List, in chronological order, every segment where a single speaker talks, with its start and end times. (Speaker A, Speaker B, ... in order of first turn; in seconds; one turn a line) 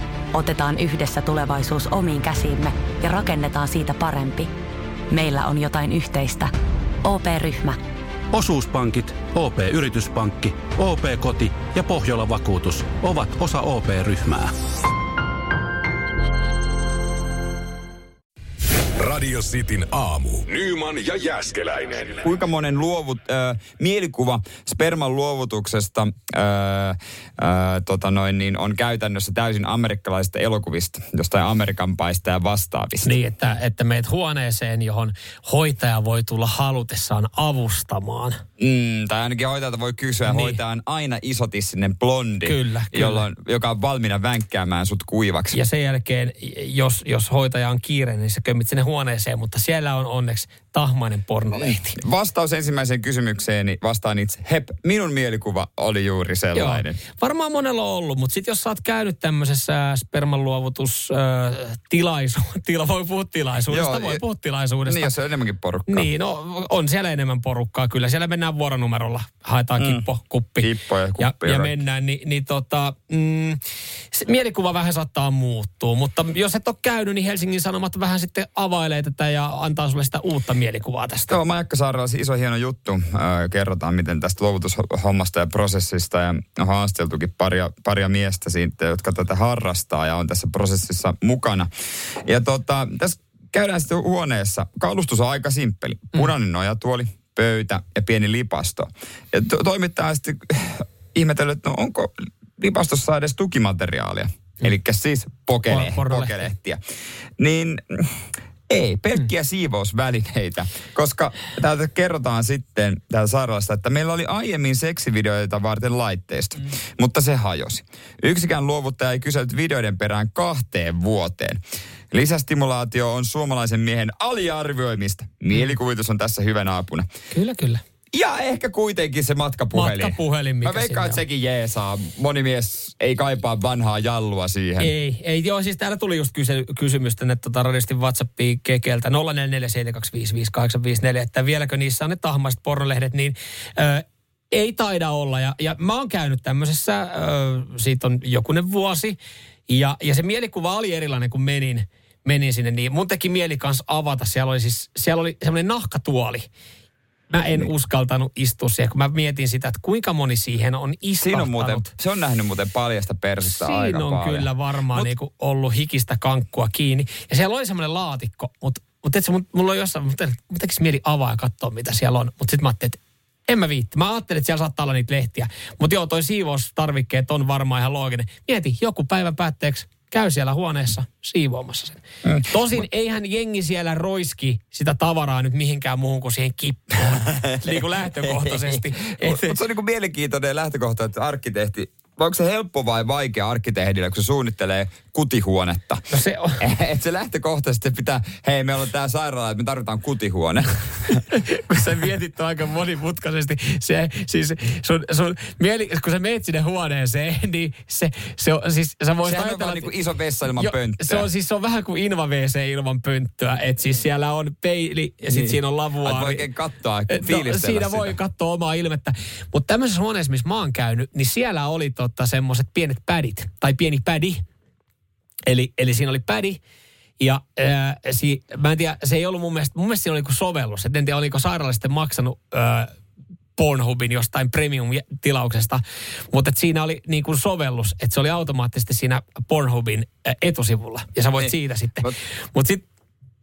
Speaker A: 0.3-4.5
Speaker A: 5.1-6.5
Speaker A: 7.0-7.8
Speaker B: 8.3-14.5
Speaker C: 19.0-22.2
Speaker D: 22.2-33.1
Speaker E: 33.0-38.4
Speaker D: 38.6-45.6
Speaker E: 40.2-40.6
Speaker E: 42.4-43.3
Speaker E: 45.5-52.0
Speaker D: 51.5-57.0
Speaker E: 56.5-65.2
Speaker D: 63.7-64.2
Speaker D: 64.9-66.1
Speaker E: 65.9-73.6
Speaker D: 69.8-70.0
Speaker D: 70.6-71.8
Speaker E: 74.1-81.3
Speaker D: 81.3-91.7
Speaker D: 92.2-106.8
Speaker E: 105.7-106.5
Speaker D: 107.4-121.6
Speaker D: 122.1-127.1
Speaker E: 127.3-127.8
Speaker D: 128.1-134.9
Speaker E: 129.7-131.2
Speaker E: 134.8-156.5
Speaker E: 157.3-161.9
Speaker D: 161.2-165.1
Speaker E: 163.4-189.6
Speaker D: 182.2-182.8
Speaker D: 187.3-196.1
Speaker E: 196.1-196.6
Speaker D: 196.6-201.2
Speaker E: 201.1-209.9
Speaker D: 209.2-211.3
Speaker E: 210.6-216.5
Speaker D: 215.3-218.2
Speaker E: 217.1-224.4
Speaker E: 225.5-226.6
Speaker E: 227.2-232.9
Speaker E: 233.6-242.8
Speaker D: 241.4-242.2